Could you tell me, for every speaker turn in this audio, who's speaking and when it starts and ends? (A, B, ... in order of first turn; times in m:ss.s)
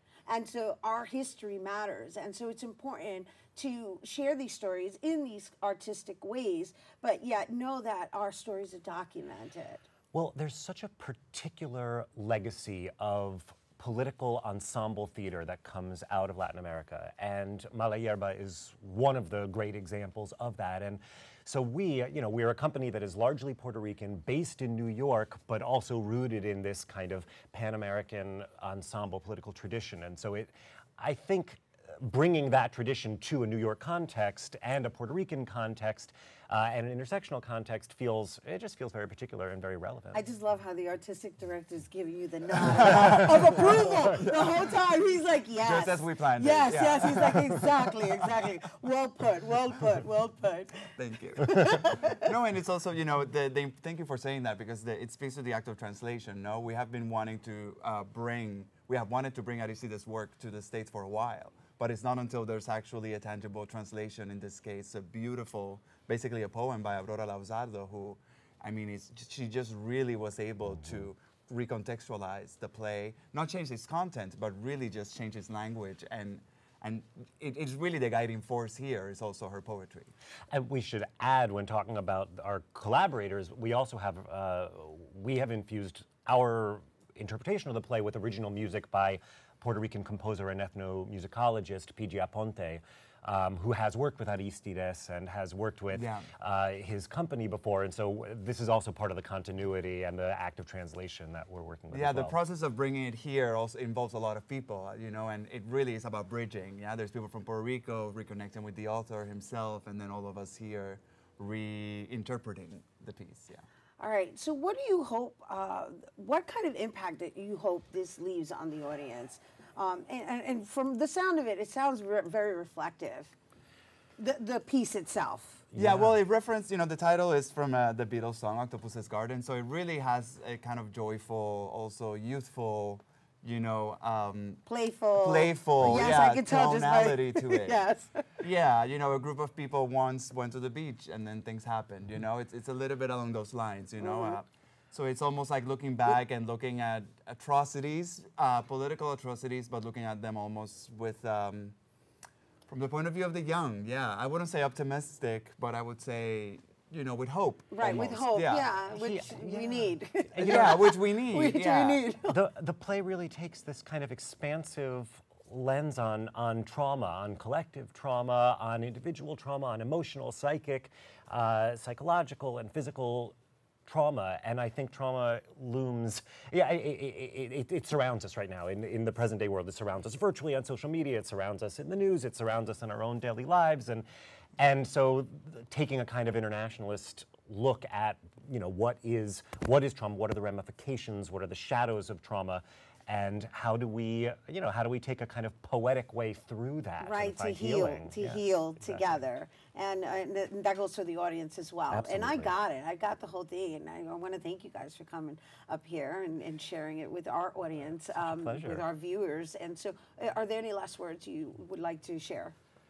0:00.3-0:09.9 A
0:10.1-0:40.2 B
0:40.1-0:52.3 A
0:45.6-0:47.6 C
0:51.0-1:20.1 C
1:20.5-1:42.4 B
1:35.9-1:36.3 C
1:41.9-1:53.6 C
1:54.0-2:03.3 A
2:04.2-2:05.6 A
2:05.7-2:06.2 B
2:05.8-2:14.6 C
2:14.7-2:18.4 A
2:15.2-2:17.8 C
2:18.4-2:31.8 C
2:24.0-2:24.4 A
2:32.7-2:38.7 C
2:37.7-2:42.4 A
2:38.9-2:40.9 B
2:40.4-2:42.0 C
2:42.3-2:53.4 B
2:53.9-3:04.0 B
3:04.6-3:19.2 B
3:17.0-3:32.6 A
3:21.9-3:22.5 B
3:28.0-3:28.9 B